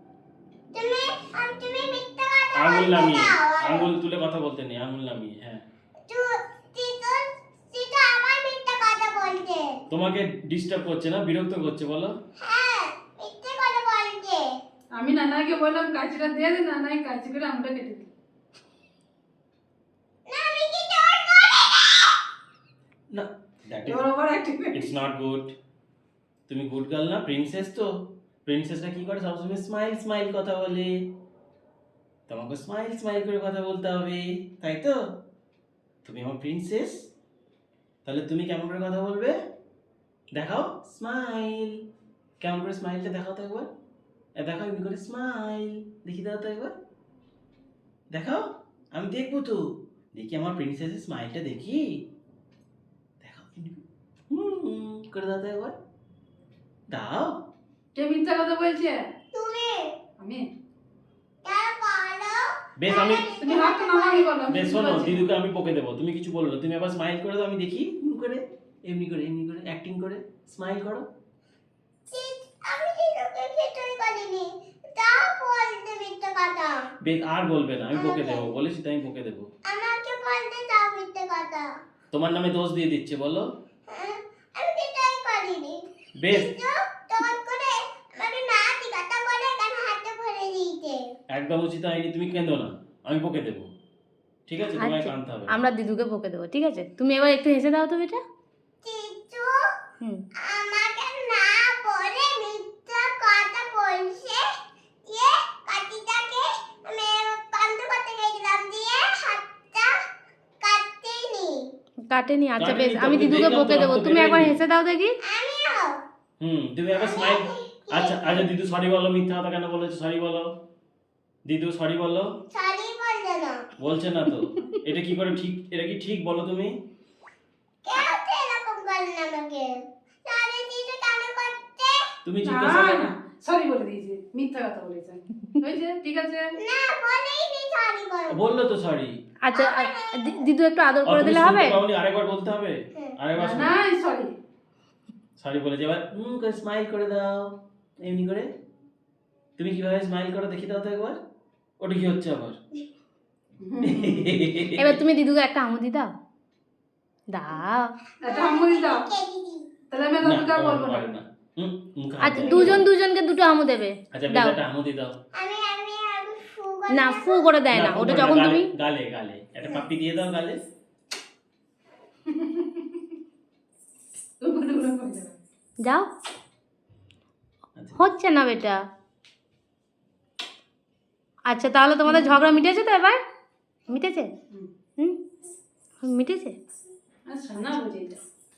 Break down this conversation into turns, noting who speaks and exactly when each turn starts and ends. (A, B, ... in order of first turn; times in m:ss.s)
0:00.7-0:03.9 A
0:02.5-0:05.6 B
0:06.1-0:09.8 A
0:09.9-0:12.2 B
0:12.4-0:14.5 A
0:15.0-0:18.1 C
0:20.3-0:22.2 A
0:23.1-0:24.0 B
0:23.9-0:24.9 C
0:24.7-0:25.5 B
0:26.5-0:27.9 B
0:28.5-0:31.0 B
0:32.3-0:35.0 B
0:36.0-0:37.0 B
0:38.0-0:39.4 B
0:40.4-0:41.8 B
0:42.4-0:43.7 B
0:44.4-0:46.7 B
0:48.1-0:49.6 B
0:50.1-0:51.8 B
0:53.2-0:55.7 B
0:56.9-0:57.4 B
0:58.0-0:59.1 C
0:59.3-0:59.9 A
1:00.2-1:00.5 C
1:01.4-1:04.4 A
1:02.8-1:03.3 B
1:03.4-1:05.2 C
1:04.5-1:11.1 B
1:12.1-1:16.8 A
1:17.0-1:19.5 B
1:17.9-1:18.5 A
1:19.7-1:21.7 A
1:22.1-1:23.5 B
1:23.9-1:31.0 A
1:26.2-1:26.5 B
1:31.3-1:33.7 B
1:34.5-1:35.6 B
1:34.8-1:38.2 D
1:38.8-1:39.6 A
1:40.5-1:44.4 A
1:45.1-1:49.9 A
1:50.6-1:51.6 A
1:52.1-1:55.1 D
1:52.6-1:54.6 B
1:55.2-1:56.0 A
1:56.4-2:00.5 B
1:56.9-1:58.5 A
2:01.5-2:02.3 B
2:02.5-2:03.7 A
2:03.8-2:06.8 B
2:07.8-2:09.8 A
2:10.3-2:12.0 A
2:12.2-2:13.1 B
2:12.4-2:16.5 C
2:16.6-2:18.4 A
2:18.3-2:19.2 B
2:19.4-2:21.8 D
2:19.5-2:20.4 A
2:21.0-2:23.7 B
2:23.4-2:24.3 C
2:25.4-2:28.5 B
2:29.6-2:31.2 B
2:31.8-2:32.6 B
2:33.6-2:34.4 C
2:33.8-2:35.0 B
2:34.8-2:36.1 D
2:37.3-2:37.9 D
2:38.2-2:39.0 C
2:38.2-2:39.7 A
2:39.9-2:41.0 C
2:40.2-2:42.8 B
2:42.2-2:44.6 D
2:44.1-2:45.2 B
2:45.3-2:47.5 A
2:46.9-2:48.7 D
2:47.7-2:50.6 B
2:52.3-2:53.0 C
2:54.4-2:55.4 C
2:55.8-2:56.1 D
2:57.8-2:58.0 B
2:58.0-2:58.8 D
3:01.5-3:03.2 D
3:02.1-3:02.4 C
3:03.9-3:04.3 D
3:06.0-3:06.6 D
3:07.3-3:08.2 C